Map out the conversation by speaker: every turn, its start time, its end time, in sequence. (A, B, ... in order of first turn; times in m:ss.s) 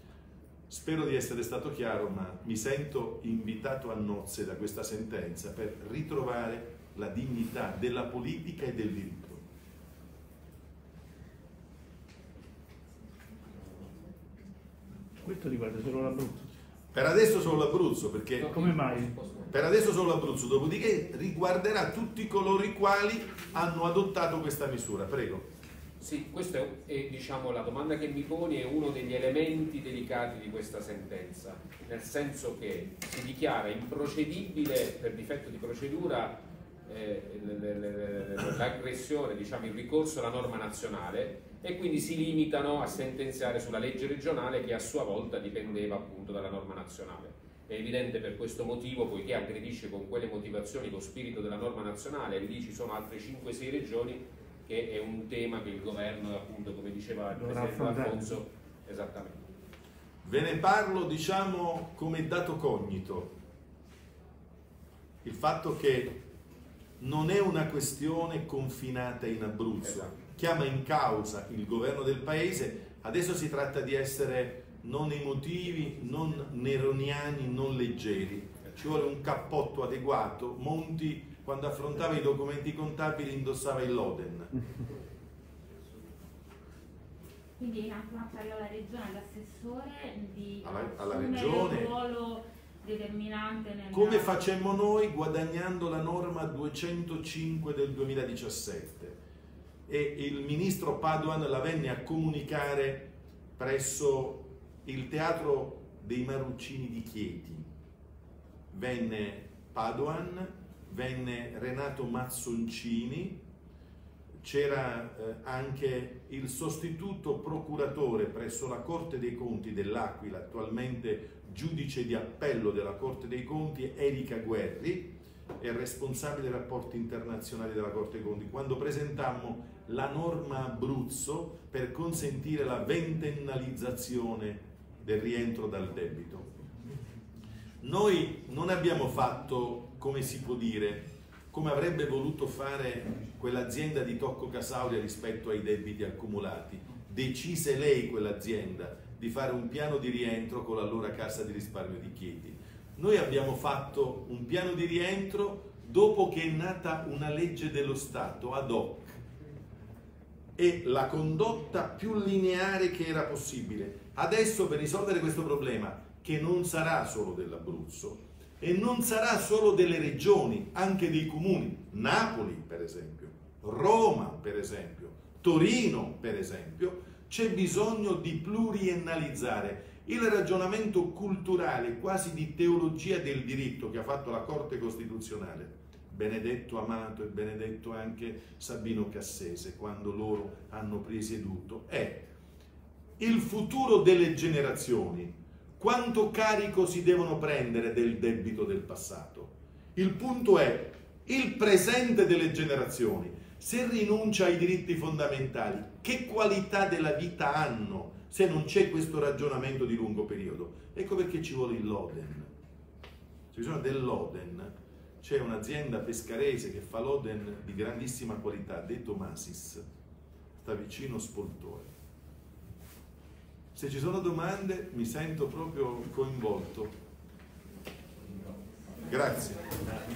0:00.7-0:09.4 A
0:15.2-0:16.5 B
0:16.9-0:18.6 A
0:18.4-0:19.5 C
0:18.5-0:19.1 B
0:19.5-0:25.4 A
0:26.0-0:59.4 C
0:57.3-0:58.2 B
1:00.2-1:03.3 A
1:05.2-1:06.2 A
1:07.0-1:24.5 A
1:27.6-1:34.4 D
1:30.6-1:31.9 A
1:33.9-1:39.2 A
1:39.9-1:47.6 A
1:48.7-1:53.4 A
1:54.4-2:16.5 A
2:17.8-2:39.2 A
2:40.6-3:12.3 A
3:13.2-3:32.5 A
3:33.5-3:39.8 A
3:40.6-3:41.9 A
3:43.7-3:46.9 A
3:49.1-3:49.7 A